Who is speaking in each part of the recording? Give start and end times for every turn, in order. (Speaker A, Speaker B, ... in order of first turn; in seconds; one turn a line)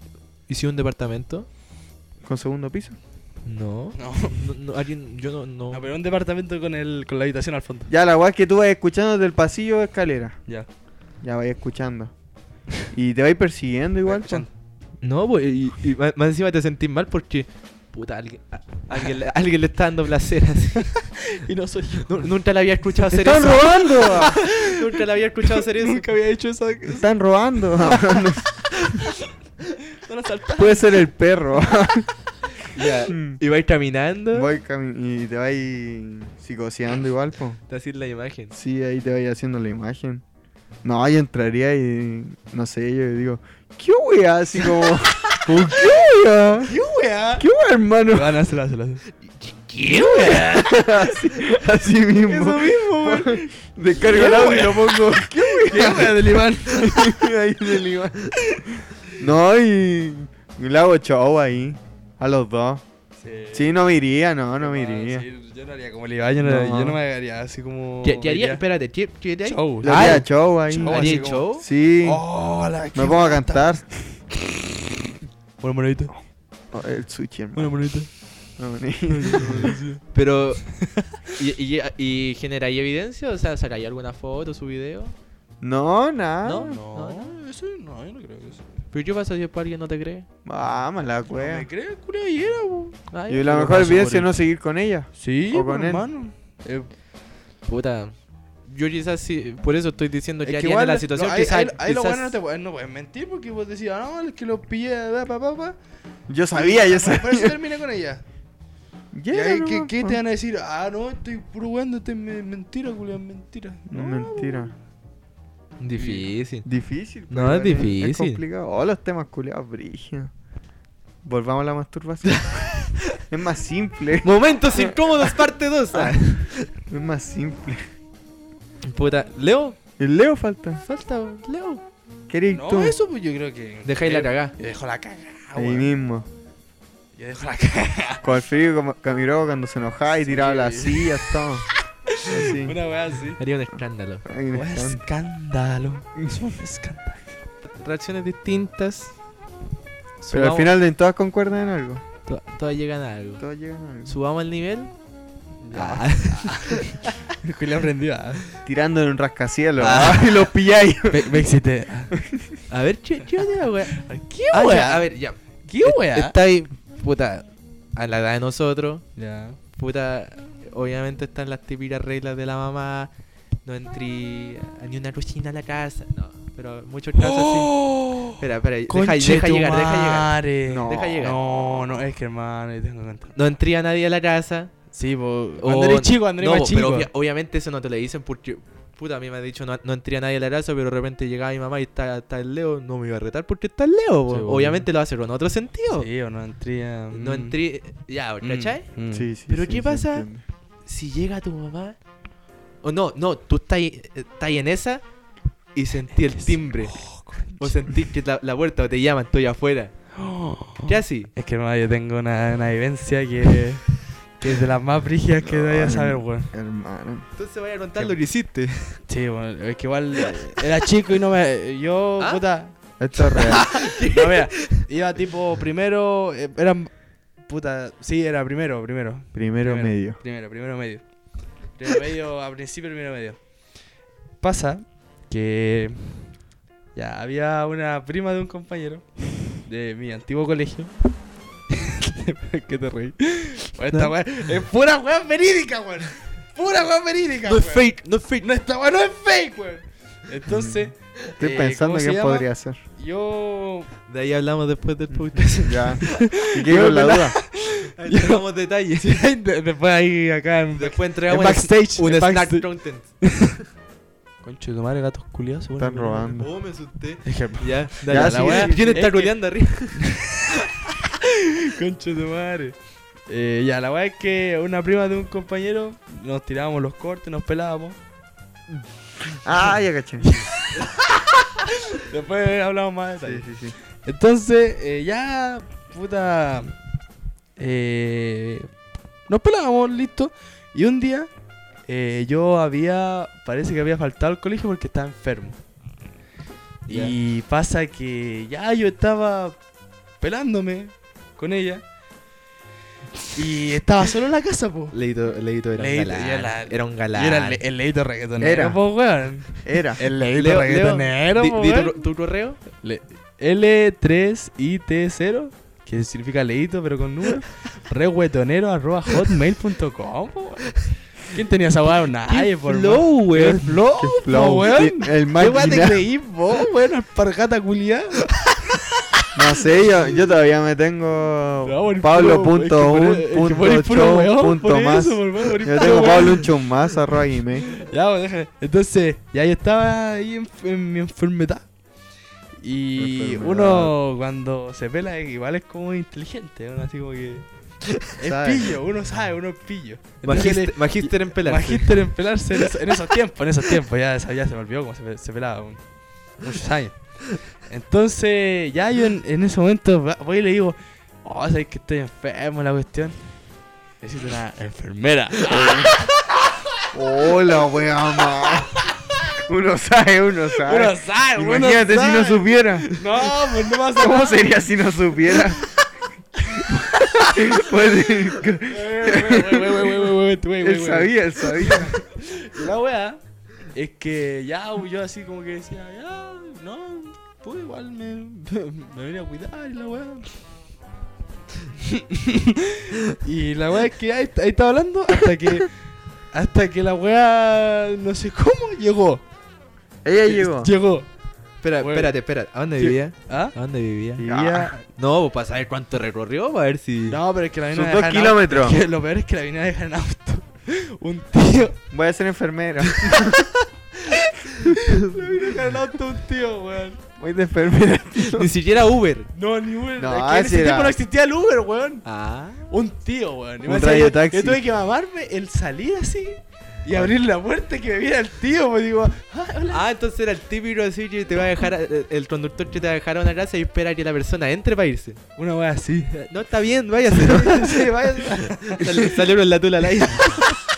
Speaker A: 0.5-1.5
Speaker B: 2.2-3.0
Speaker A: 3.4-5.8
Speaker C: 4.0-4.4
Speaker C: 5.7-7.9
Speaker B: 7.9-10.4
Speaker B: 11.2-12.1
Speaker B: 12.9-14.5
Speaker C: 14.1-14.5
Speaker A: 15.0-21.1
Speaker C: 21.1-22.3
Speaker A: 22.1-26.1
Speaker B: 23.1-24.4
Speaker C: 24.2-24.9
Speaker C: 25.4-27.0
Speaker B: 26.9-28.6
Speaker C: 29.9-30.8
Speaker B: 30.6-32.1
Speaker A: 32.7-34.5
Speaker B: 33.1-33.4
Speaker B: 34.3-37.6
Speaker A: 37.7-38.5
Speaker B: 38.5-40.2
Speaker B: 40.8-46.7
Speaker C: 46.6-47.4
Speaker B: 47.4-48.3
Speaker C: 48.1-49.0
Speaker A: 49.2-50.5
Speaker C: 49.8-51.1
Speaker B: 50.2-58.4
Speaker C: 52.2-57.2
Speaker B: 59.1-62.8
Speaker C: 63.2-63.7
Speaker B: 63.5-65.2
Speaker C: 64.6-68.6
Speaker B: 66.4-67.0
Speaker A: 68.0-71.6
Speaker C: 69.4-70.2
Speaker B: 69.8-72.2
Speaker C: 70.8-71.5
Speaker C: 72.0-73.7
Speaker B: 72.9-74.2
Speaker C: 75.6-76.1
Speaker B: 76.7-77.8
Speaker C: 77.5-78.1
Speaker B: 78.6-79.7
Speaker C: 79.1-80.0
Speaker A: 80.1-85.1
Speaker C: 80.8-81.4
Speaker B: 85.6-86.8
Speaker A: 86.4-87.3
Speaker C: 86.6-88.8
Speaker A: 88.9-90.3
Speaker B: 90.4-91.7
Speaker C: 91.3-93.0
Speaker A: 93.1-94.3
Speaker B: 93.3-96.1
Speaker C: 93.5-94.2
Speaker C: 95.2-96.9
Speaker A: 97.6-98.1
Speaker A: 98.7-102.3
Speaker C: 100.4-105.8
Speaker B: 106.3-107.6
Speaker C: 106.5-108.2
Speaker B: 109.1-110.2
Speaker C: 109.3-114.7
Speaker B: 113.9-114.7
Speaker A: 115.8-116.7
Speaker C: 116.0-116.2
Speaker B: 116.6-120.3
Speaker A: 117.3-118.4
Speaker B: 121.2-125.4
Speaker A: 122.4-123.2
Speaker A: 124.2-126.6
Speaker B: 125.9-126.4
Speaker B: 126.9-127.9
Speaker A: 128.8-129.8
Speaker B: 130.0-130.8
Speaker A: 130.8-131.8
Speaker B: 132.3-133.0
Speaker C: 132.5-135.9
Speaker A: 133.8-134.5
Speaker B: 135.6-136.3
Speaker C: 137.2-138.2
Speaker B: 138.2-142.8
Speaker C: 140.2-141.2
Speaker C: 142.1-143.4
Speaker A: 143.4-144.2
Speaker B: 144.2-145.0
Speaker C: 144.5-147.3
Speaker A: 147.6-149.1
Speaker A: 150.2-150.7
Speaker B: 150.3-152.0
Speaker A: 152.2-153.4
Speaker B: 153.4-154.2
Speaker A: 154.1-154.9
Speaker C: 155.6-158.4
Speaker A: 155.7-157.1
Speaker B: 158.6-161.3
Speaker A: 159.8-160.4
Speaker C: 161.1-162.1
Speaker A: 162.7-169.0
Speaker C: 164.0-165.1
Speaker C: 165.6-166.4
Speaker C: 169.2-169.6
Speaker A: 169.7-173.1
Speaker A: 173.6-181.4
Speaker C: 177.2-183.3
Speaker B: 180.7-181.2
Speaker A: 183.3-184.7
Speaker C: 184.9-187.1
Speaker A: 185.6-196.1
Speaker C: 194.3-194.9
Speaker C: 195.9-197.6
Speaker A: 197.1-198.9
Speaker C: 198.4-199.3
Speaker B: 199.1-200.4
Speaker A: 199.5-200.3
Speaker A: 200.8-202.0
Speaker A: 202.8-205.0
Speaker A: 205.7-210.1
Speaker C: 206.2-207.7
Speaker C: 210.1-216.5
Speaker A: 210.8-211.3
Speaker B: 215.4-217.3
Speaker A: 217.3-219.0
Speaker C: 219.1-222.7
Speaker B: 223.0-223.8
Speaker A: 223.3-224.8
Speaker C: 224.1-233.5
Speaker B: 229.3-230.2
Speaker C: 234.4-236.4
Speaker C: 236.9-240.9
Speaker C: 241.7-247.9
Speaker A: 247.4-248.4
Speaker C: 248.4-253.9
Speaker B: 250.5-252.8
Speaker A: 254.1-256.2
Speaker B: 255.6-257.4
Speaker C: 256.1-258.4
Speaker A: 258.0-259.3
Speaker C: 259.0-262.7
Speaker A: 260.8-263.1
Speaker C: 264.4-266.4
Speaker B: 265.8-266.5
Speaker A: 266.4-270.1
Speaker C: 267.2-278.0
Speaker B: 268.1-269.0
Speaker B: 279.3-280.5
Speaker C: 280.3-280.9
Speaker C: 281.6-283.5
Speaker B: 283.2-283.8
Speaker C: 284.0-286.7
Speaker C: 287.6-288.7
Speaker C: 289.3-291.3
Speaker C: 291.8-295.6
Speaker C: 296.9-299.6
Speaker A: 296.9-297.1
Speaker C: 300.2-301.8
Speaker C: 303.3-304.9
Speaker A: 304.9-307.6
Speaker C: 305.8-312.1
Speaker B: 308.4-308.8
Speaker B: 309.6-310.0
Speaker A: 310.3-312.6
Speaker C: 312.8-328.3
Speaker A: 322.3-323.8
Speaker B: 324.0-326.1
Speaker B: 329.3-337.7
Speaker C: 331.6-336.5
Speaker C: 337.7-341.7
Speaker C: 342.6-363.2
Speaker B: 343.0-343.9
Speaker B: 348.2-348.7
Speaker A: 350.2-352.1
Speaker C: 364.0-365.9
Speaker B: 365.4-366.0
Speaker B: 366.9-368.9
Speaker B: 369.4-372.9
Speaker C: 370.6-374.6
Speaker B: 373.9-375.7
Speaker B: 376.5-381.9
Speaker C: 377.2-377.4
Speaker C: 378.6-383.2
Speaker C: 383.7-390.3
Speaker C: 391.8-399.2
Speaker B: 400.0-400.7
Speaker C: 400.2-401.1
Speaker A: 401.6-404.2
Speaker C: 401.8-402.1
Speaker C: 402.8-403.5
Speaker B: 404.2-404.7
Speaker C: 404.2-404.8
Speaker A: 404.9-407.2
Speaker C: 407.1-411.8
Speaker B: 407.7-408.8
Speaker B: 411.9-413.6
Speaker C: 414.1-417.0
Speaker B: 417.2-418.5
Speaker A: 418.2-419.3
Speaker C: 419.3-422.1
Speaker B: 420.0-421.0
Speaker A: 422.0-422.6
Speaker C: 422.7-429.8
Speaker B: 423.6-424.6
Speaker A: 429.7-435.2
Speaker C: 435.4-436.3
Speaker A: 436.3-440.5
Speaker C: 437.1-439.1